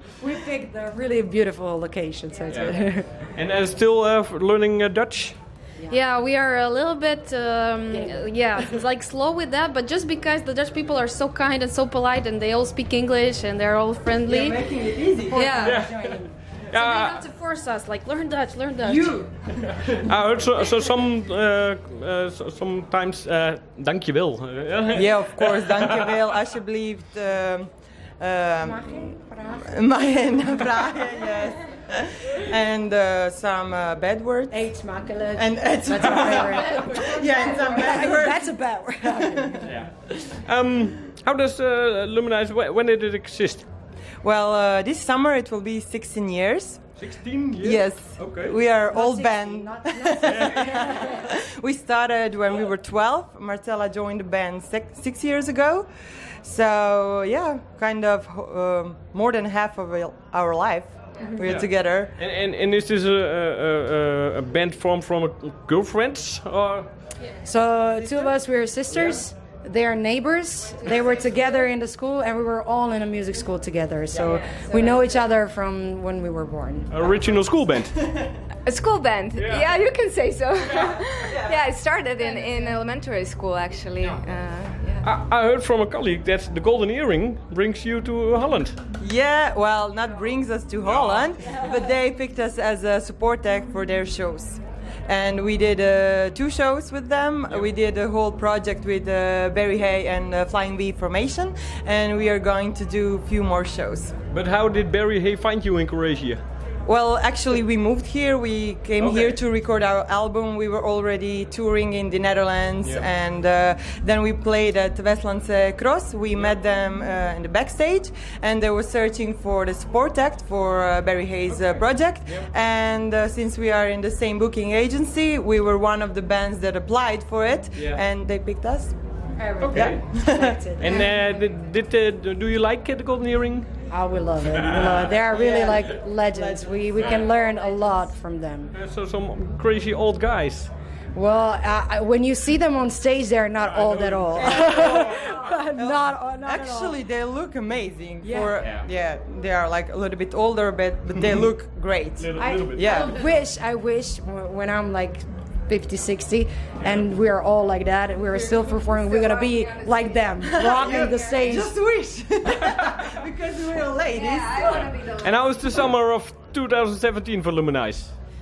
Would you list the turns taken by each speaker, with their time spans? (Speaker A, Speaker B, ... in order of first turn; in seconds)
Speaker A: 0.2-3.1, 7.9-8.6, 15.3-16.3, 28.6-29.8, 34.5-39.7, 48.8-51.3, 67.4-76.9, 129.3-131.1, 133.9-138.7, 141.1-147.0, 148.2-148.6, 152.3-161.8
Speaker B: 2.5-5.4, 15.6-17.2, 19.8-26.1, 39.6-43.7, 47.0-48.5, 50.2-50.9, 61.4-66.9, 76.9-78.0, 79.3-79.8, 85.0-88.8, 90.8-91.2, 104.3-106.4, 109.0-109.4, 121.5-122.5, 129.6-133.7, 138.7-140.7, 143.6-145.2, 148.6-148.9, 152.2-153.1, 165.2-168.1
Speaker C: 5.9-14.6, 15.3-15.8, 16.7-19.2, 61.2-61.4
Speaker D: 14.2-15.6, 18.8-20.0, 24.9-34.6, 35.3-39.6, 44.2-46.9, 47.6-55.9, 56.4-62.1, 78.0-78.3, 81.2-81.7, 89.0-104.1, 106.8-129.0, 129.7-130.6, 135.3-137.3, 144.3-153.2, 160.4-165.0
Speaker E: 74.2-75.1, 78.7-85.0, 158.3-161.3, 164.1-165.6